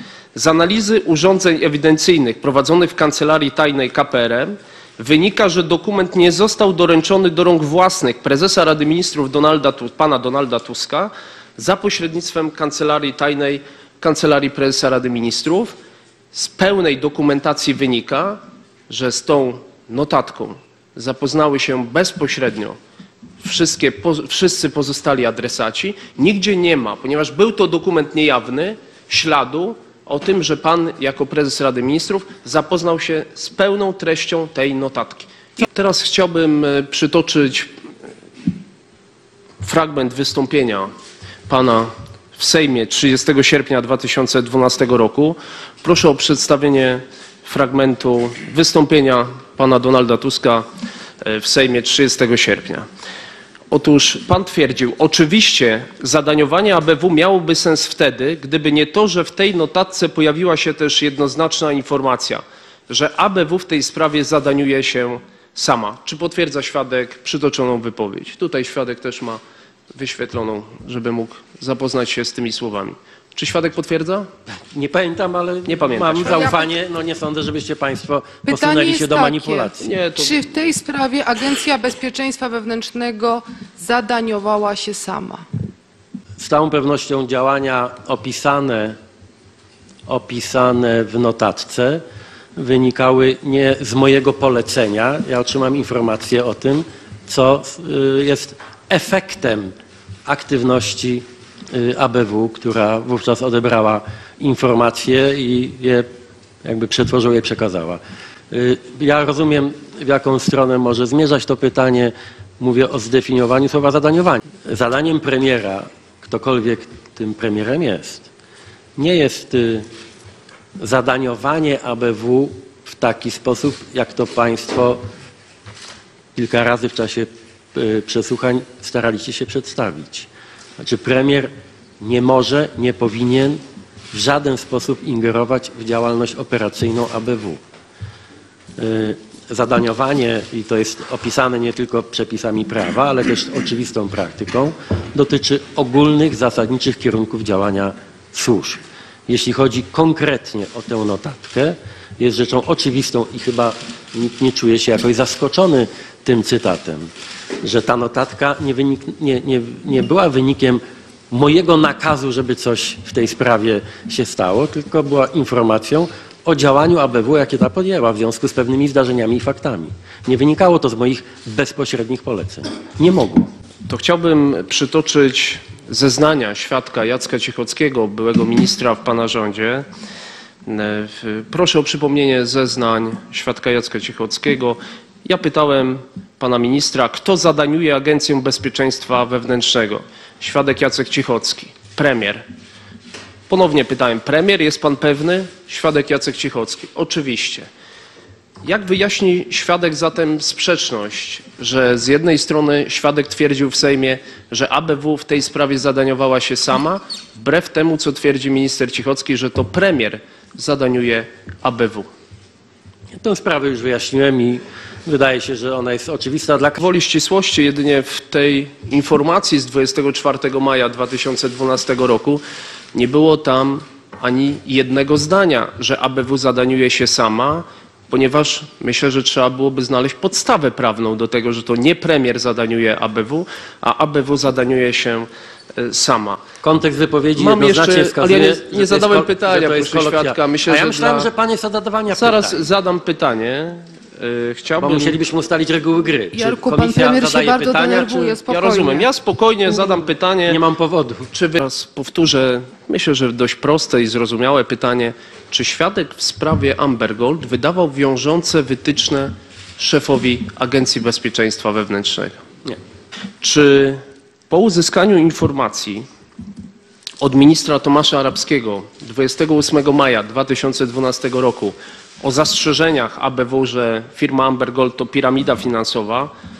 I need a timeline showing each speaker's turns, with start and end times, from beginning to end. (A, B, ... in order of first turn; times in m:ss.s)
0:00.3-0:15.8 A
0:16.3-0:22.8 A
0:23.4-0:37.7 A
0:39.6-0:40.9 A
0:41.5-0:50.7 A
0:51.2-0:52.9 A
0:53.7-1:09.4 A
1:09.9-1:14.3 A
1:14.7-1:19.9 B
1:15.7-1:16.4 A
1:16.2-1:16.7 C
1:18.4-1:25.4 C
1:19.8-1:20.4 A
1:26.4-1:29.0 B
1:30.0-1:32.0 B
1:32.6-1:39.7 B
1:40.2-1:46.1 B
1:46.6-1:58.3 B
1:59.0-1:59.9 B
2:00.8-2:05.0 B
2:06.3-2:17.6 B
2:18.8-2:37.1 B
2:37.6-2:53.5 B
2:53.9-2:59.8 A
3:00.6-3:12.5 A
3:13.5-3:17.7 A
3:18.6-3:32.1 A
3:33.1-3:36.8 B
3:36.8-3:42.4 A
3:42.9-3:56.4 A
3:56.6-4:02.6 B
3:57.4-4:01.3 A
4:02.1-4:05.2 A
4:04.8-4:08.4 B
4:06.3-4:09.0 C
4:08.5-4:10.6 A
4:10.5-4:11.3 B
4:11.3-4:22.4 A
4:23.4-4:26.0 A
4:27.2-4:36.3 A